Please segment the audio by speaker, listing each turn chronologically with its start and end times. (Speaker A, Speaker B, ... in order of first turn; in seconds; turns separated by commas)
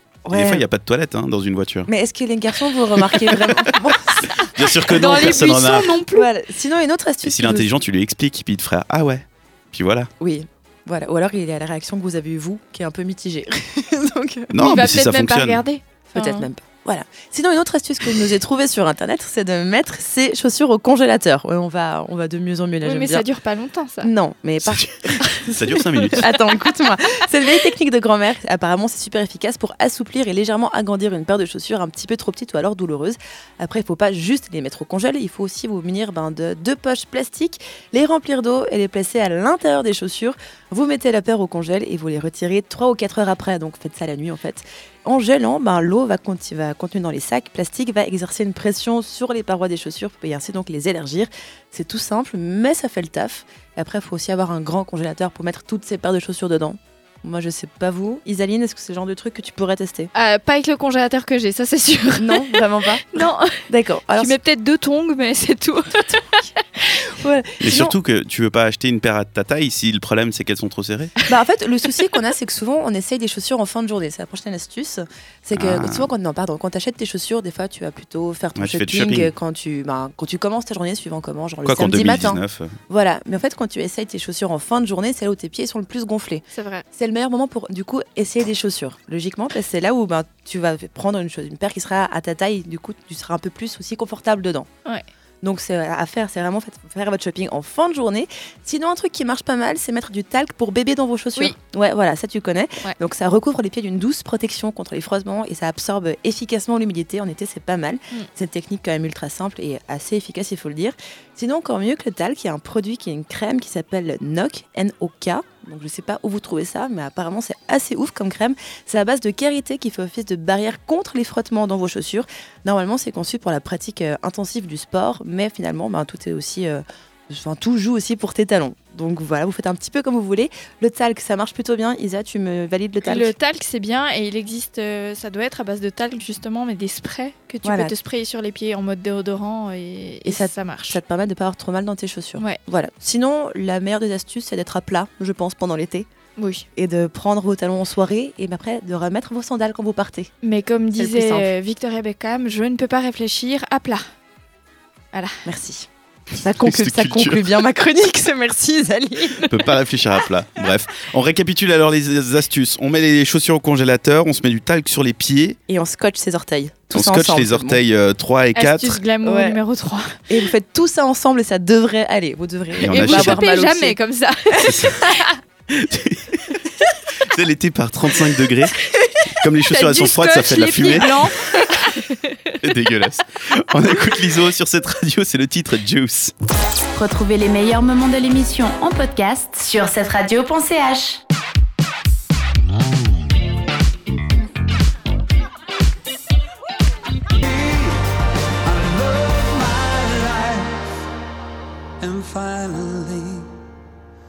Speaker A: 0.2-0.6, Speaker B: 0.3-1.9, Speaker A: 1.9-4.5, Speaker B: 4.4-6.0, Speaker C: 4.9-6.3, Speaker A: 5.0-5.5, Speaker A: 6.1-7.7, Speaker B: 7.2-10.1, Speaker A: 10.2-14.8, Speaker B: 14.5-15.6, Speaker C: 14.6-16.5, Speaker A: 16.1-23.2, Speaker C: 22.8-24.1, Speaker A: 24.0-60.1, Speaker B: 24.7-26.3, Speaker C: 60.1-63.6, Speaker A: 62.2-64.3, Speaker C: 64.2-67.0, Speaker A: 66.0-67.9, Speaker B: 67.6-71.1, Speaker A: 71.3-94.7, Speaker B: 75.5-76.1, Speaker B: 78.6-79.3, Speaker B: 81.6-82.7, Speaker C: 86.5-86.8, Speaker A: 95.4-133.3, Speaker C: 133.0-141.0, Speaker A: 137.6-137.9, Speaker A: 140.2-146.1, Speaker C: 146.4-146.6, Speaker A: 146.8-150.3, Speaker C: 150.4-154.1, Speaker A: 151.0-151.5, Speaker C: 155.1-155.4, Speaker A: 155.4-155.9, Speaker A: 156.4-159.5, Speaker B: 156.6-157.4, Speaker B: 159.5-165.6, Speaker A: 165.7-167.8, Speaker B: 166.9-169.0, Speaker C: 168.5-170.2, Speaker A: 169.2-169.6, Speaker A: 170.3-174.0, Speaker B: 172.8-173.4, Speaker C: 172.9-175.3, Speaker B: 174.6-175.0, Speaker B: 175.7-176.6, Speaker B: 177.2-178.8, Speaker B: 179.4-181.3, Speaker C: 179.7-182.6, Speaker B: 182.6-186.3, Speaker D: 186.9-191.2, Speaker E: 197.4-198.0, Speaker E: 198.6-200.8, Speaker E: 202.0-203.5